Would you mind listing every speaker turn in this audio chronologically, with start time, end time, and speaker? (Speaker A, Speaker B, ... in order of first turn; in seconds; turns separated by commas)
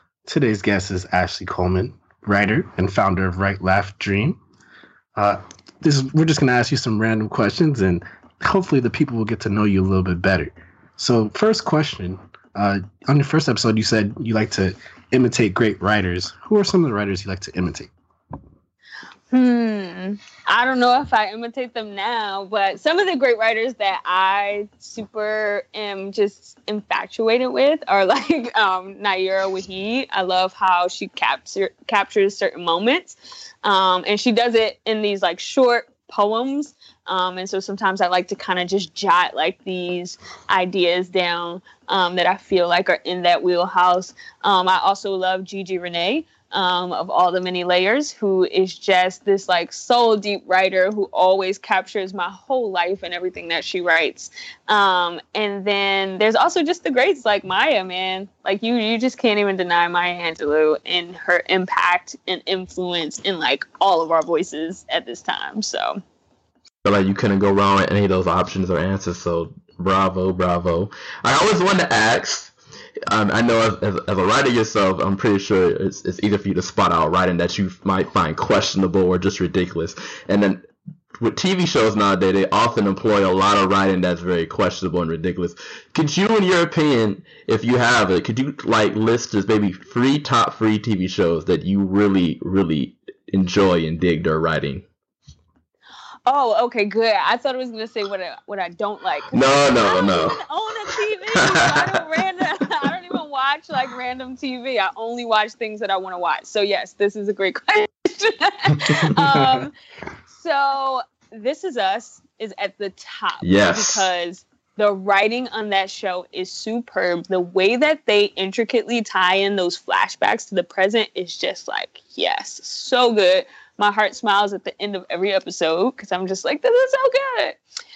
Speaker A: 0.2-4.4, Speaker A: 5.2-17.9, Speaker B: 19.3-66.0, Speaker C: 66.8-72.5, Speaker C: 73.1-80.7, Speaker C: 81.2-94.8, Speaker B: 96.2-109.7, Speaker C: 99.3-100.4, Speaker C: 101.5-101.9, Speaker B: 110.3-127.6, Speaker C: 113.4-114.1